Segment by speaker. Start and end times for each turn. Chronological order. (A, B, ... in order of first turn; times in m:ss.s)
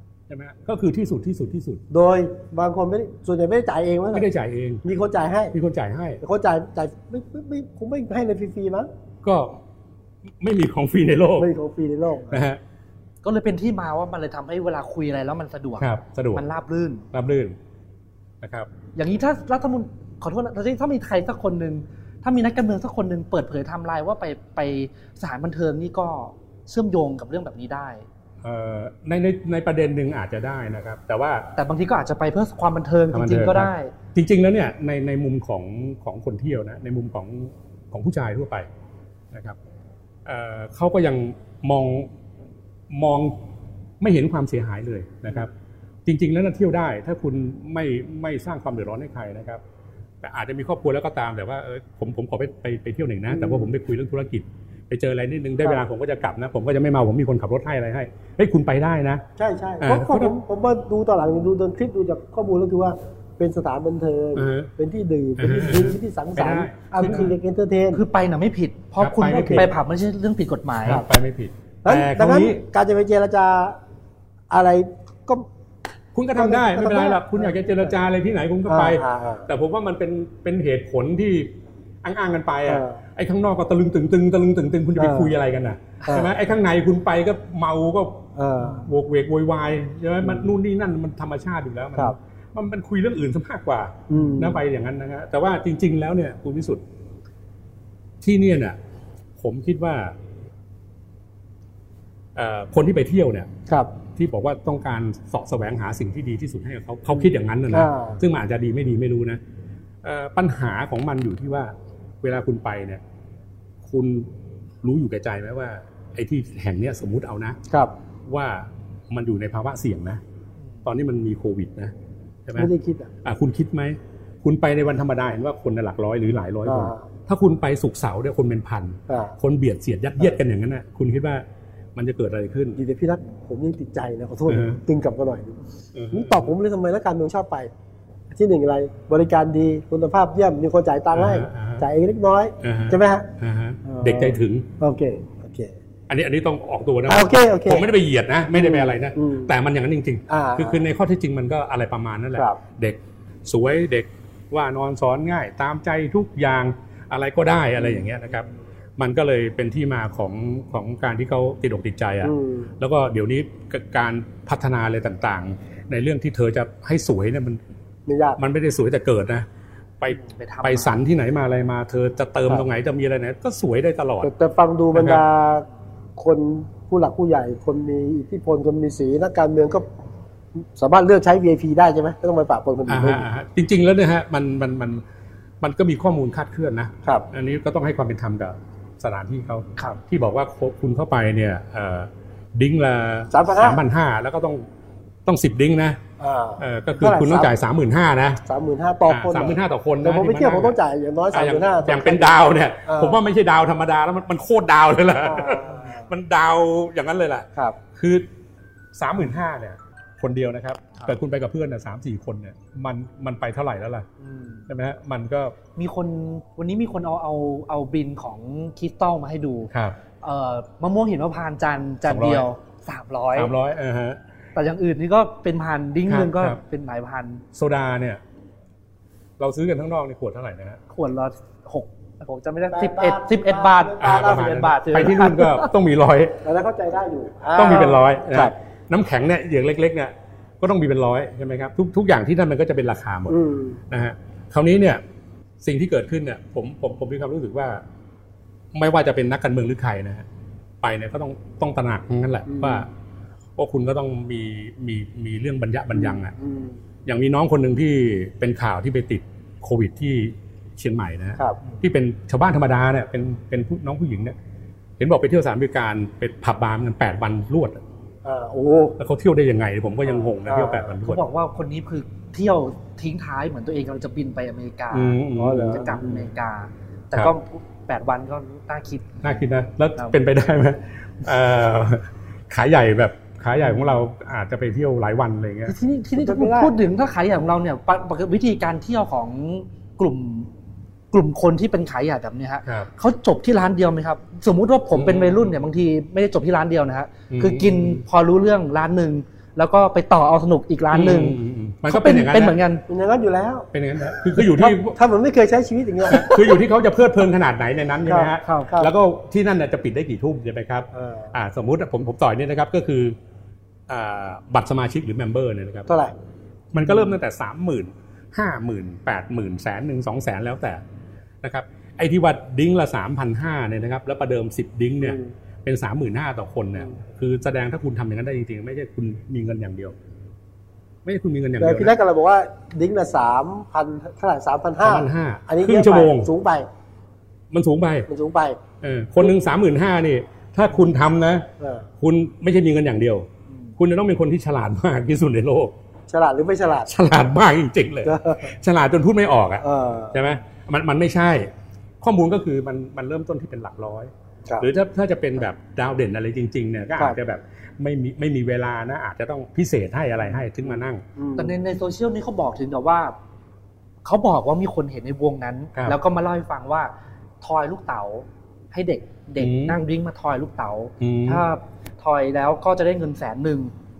0:00.3-0:01.8 A
0:01.9-0:04.3 B
0:04.1-0:04.8 A
0:04.8-0:05.6 B
0:05.5-0:06.2 A
0:06.2-0:08.9 B
0:09.2-0:09.6 A
0:10.4-0:11.5 A
0:11.4-0:12.4 B
0:12.3-0:12.6 A
0:13.2-0:17.0 C
0:15.8-0:16.4 A
0:17.1-0:17.6 A
0:18.4-0:18.7 A
0:19.0-0:28.1 C
0:28.4-0:31.5 A
0:31.6-0:33.9 C
0:33.1-0:38.7 A
0:39.3-0:39.6 A
0:40.2-0:42.1 A
0:42.9-0:43.4 A
0:44.0-0:45.5 A
0:46.0-0:49.6 A
0:50.2-0:59.2 A
0:53.3-0:53.7 B
0:59.4-1:08.0 B
0:59.8-1:00.3 A
1:04.3-1:04.7 A
1:05.4-1:07.3 A
1:07.9-1:11.0 C
1:09.0-1:09.7 A
1:09.2-1:09.7 B
1:10.8-1:12.6 A
1:11.8-1:13.8 B
1:14.5-1:15.5 B
1:16.1-1:21.5 A
1:16.4-1:17.9 B
1:18.7-1:19.5 B
1:22.0-1:36.8 A
1:22.7-1:23.0 B
1:25.0-1:25.3 B
1:26.0-1:26.3 B
1:28.4-1:28.9 B
1:34.1-1:34.6 B
1:38.2-1:38.8 A
1:39.4-1:40.1 A
1:42.3-1:43.5 A
1:43.7-1:43.9 B
1:44.1-1:49.4 A
1:47.1-1:48.2 B
1:50.0-1:53.0 A
1:53.8-1:54.3 A
1:54.8-1:57.6 A
1:58.3-2:00.2 A
2:00.8-2:01.9 A
2:02.6-2:03.1 B
2:03.2-2:11.4 A
2:06.6-2:07.0 B
2:09.1-2:09.4 B
2:12.0-2:12.8 A
2:12.8-2:15.6 B
2:14.5-2:14.8 A
2:15.9-2:16.5 A
2:16.1-2:17.7 B
2:18.3-2:23.3 B
2:21.1-2:21.8 A
2:22.6-2:24.7 A
2:23.8-2:25.8 B
2:26.1-2:47.6 A
2:27.1-2:27.9 B
2:28.5-2:29.5 B
2:30.3-2:30.8 B
2:37.8-2:38.1 B
2:42.2-2:42.7 B
2:48.0-2:48.4 B
2:48.4-2:49.4 A
2:50.0-2:54.3 A
2:50.1-2:51.0 C
2:54.2-2:59.9 B
2:54.9-2:55.2 A
3:00.5-3:03.2 B
3:02.9-3:05.0 A
3:05.6-3:14.6 A
3:13.3-3:13.8 B
3:15.2-3:16.0 A
3:16.2-3:17.5 B
3:16.6-3:18.4 A
3:18.4-3:23.2 B
3:19.1-3:20.8 A
3:21.3-3:28.3 A
3:25.2-3:26.1 B
3:29.0-3:34.1 A
3:34.2-3:34.6 C
3:34.7-3:35.6 A
3:35.8-3:43.5 C
3:39.7-3:40.0 A
3:42.0-3:42.4 A
3:43.3-3:44.2 A
3:44.5-3:47.4 C
3:46.1-3:46.6 A
3:47.5-3:48.2 A
3:49.4-3:50.8 A
3:50.9-3:55.7 C
3:52.7-3:54.7 B
3:54.0-3:56.4 A
3:56.4-3:58.5 B
3:57.5-4:03.4 A
4:03.3-4:03.8 B
4:03.9-4:05.0 A
4:05.6-4:07.8 A
4:08.7-4:10.2 A
4:10.8-4:12.9 A
4:12.5-4:12.8 B
4:13.6-4:16.3 A
4:15.9-4:16.8 B
4:17.0-4:24.3 A
4:25.0-4:27.8 A
4:28.2-4:29.0 B
4:29.0-4:31.2 A
4:30.4-4:30.9 B
4:31.0-4:39.2 C
4:34.9-4:36.0 A
4:35.4-4:36.2 B
4:39.2-4:45.7 A
4:45.7-4:50.5 C
4:45.7-4:46.7 B
4:51.1-5:02.8 C
4:54.9-4:55.5 A
4:57.3-4:58.0 A
5:00.9-5:02.6 A
5:02.9-5:03.7 B
5:03.7-5:05.0 A
5:04.3-5:06.6 B
5:06.1-5:13.2 A
5:08.0-5:08.9 B
5:08.4-5:08.7 C
5:10.9-5:11.3 B
5:13.9-5:15.9 A
5:15.9-5:16.2 B
5:16.7-5:20.8 A
5:21.4-5:29.9 A
5:25.0-5:25.3 B
5:31.0-5:31.9 A
5:31.6-5:36.7 B
5:34.8-5:36.3 A
5:37.5-5:38.1 A
5:38.1-5:38.6 B
5:38.8-5:41.5 A
5:41.6-5:41.9 B
5:42.0-5:45.7 A
5:46.1-5:46.9 B
5:46.9-6:01.0 A
5:48.0-5:48.5 B
5:49.6-5:50.3 B
6:01.2-6:01.6 B
6:01.4-6:03.1 C
6:04.0-6:13.7 C
6:09.4-6:09.8 A
6:11.0-6:11.4 A